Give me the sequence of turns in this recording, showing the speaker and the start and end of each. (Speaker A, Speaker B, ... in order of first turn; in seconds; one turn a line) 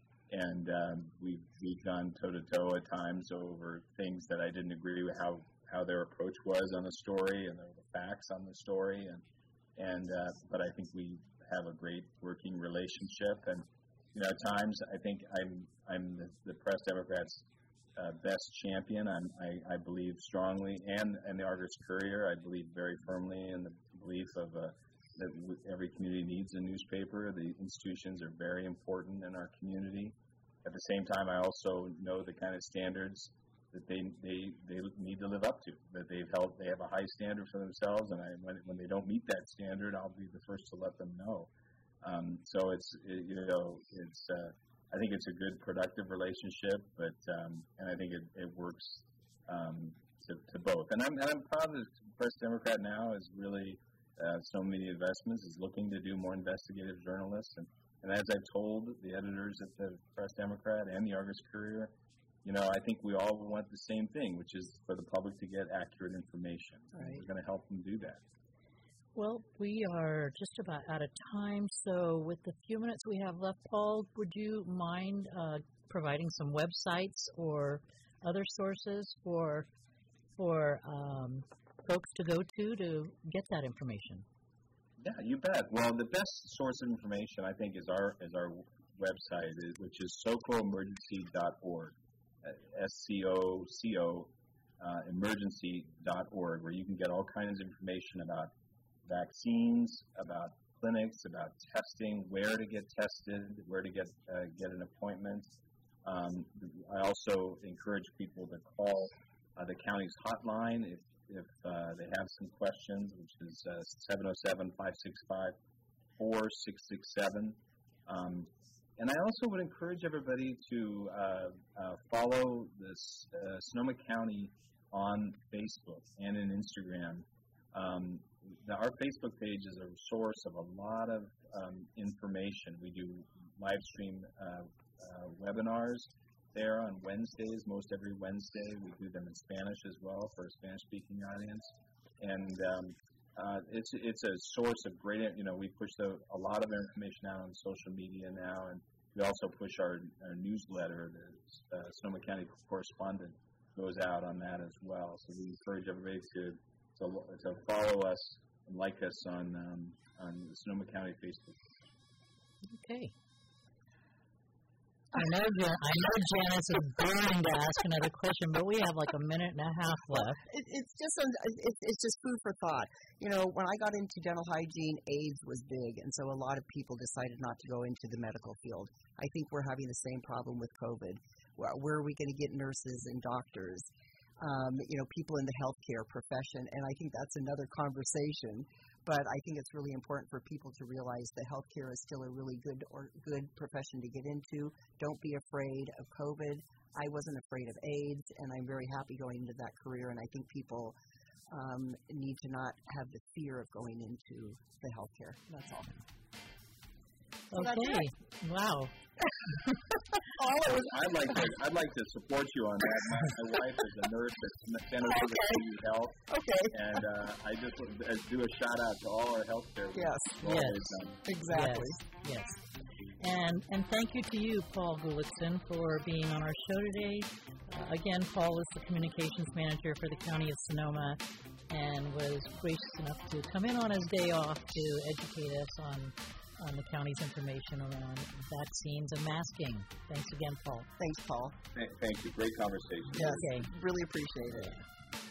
Speaker A: 0.3-9.2
Speaker A: 9.8-41.5
Speaker A: 42.0-68.2
Speaker B: 66.9-67.2
Speaker C: 69.1-79.7
Speaker C: 80.4-84.2
Speaker A: 85.0-98.5
Speaker A: 99.0-105.5
Speaker A: 106.0-115.5
Speaker A: 116.2-161.6
Speaker C: 162.7-163.1
Speaker C: 165.1-170.4
Speaker B: 170.1-183.9
Speaker B: 184.4-200.9
Speaker B: 201.5-206.0
Speaker C: 207.5-208.9
Speaker B: 207.5-208.1
Speaker B: 210.1-210.9
Speaker A: 210.7-221.2
Speaker B: 216.3-216.8
Speaker B: 219.9-220.4
Speaker C: 220.4-220.8
Speaker B: 221.2-222.0
Speaker C: 221.5-222.6
Speaker C: 223.2-240.9
Speaker B: 241.0-241.5
Speaker A: 241.7-243.5
Speaker B: 243.1-244.8
Speaker C: 243.3-243.7